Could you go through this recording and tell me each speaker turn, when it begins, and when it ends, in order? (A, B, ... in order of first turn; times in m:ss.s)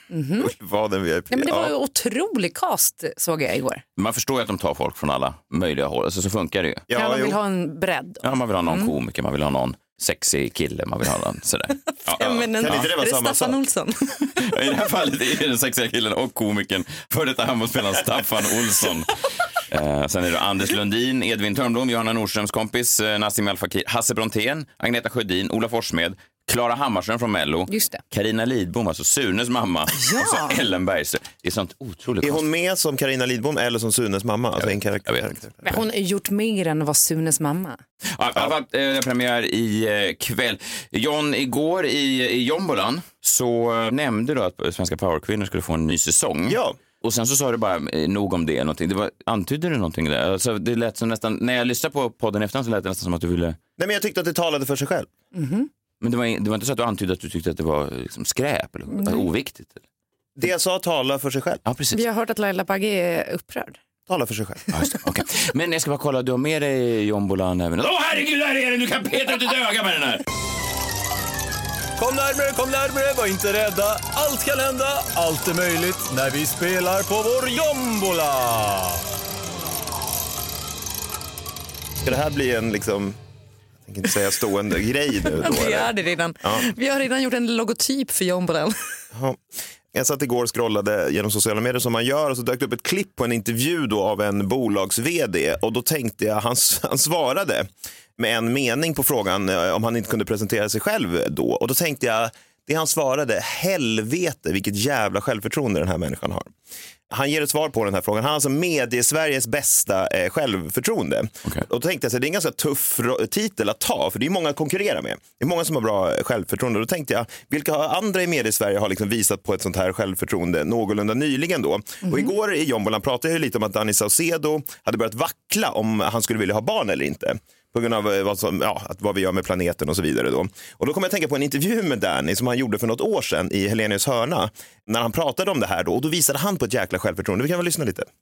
0:00.1-0:00.5 A
0:00.4-0:01.7 B
0:01.3-0:03.8 A
0:04.0-0:06.8 C
0:06.9-0:07.4 B
0:06.9-0:08.9 A
0:08.2-0:12.9 C
0:12.1-0:14.0 A
0:12.3-0:13.6 B
0:14.4-0:32.4 C
0:27.7-0:28.0 A
0:30.0-0:30.6 A
0:32.2-0:35.8 B
0:34.6-0:35.4 C
0:35.6-0:37.8 A
0:38.2-0:53.6 C
0:46.5-0:46.8 B
0:53.8-0:55.1 B
0:55.3-0:55.7 A
0:56.0-0:59.8 C
0:58.9-0:59.3 A
1:00.4-1:01.6 B
1:01.7-1:02.0 C
1:01.9-1:03.8 A
1:04.1-1:04.6 B
1:04.7-1:10.2 C
1:12.0-1:19.0 D
1:22.0-1:23.2 B
1:23.9-1:25.9 B
1:25.4-1:28.8 A
1:29.1-1:46.5 B
1:47.1-2:18.1 B
2:02.0-2:02.3 A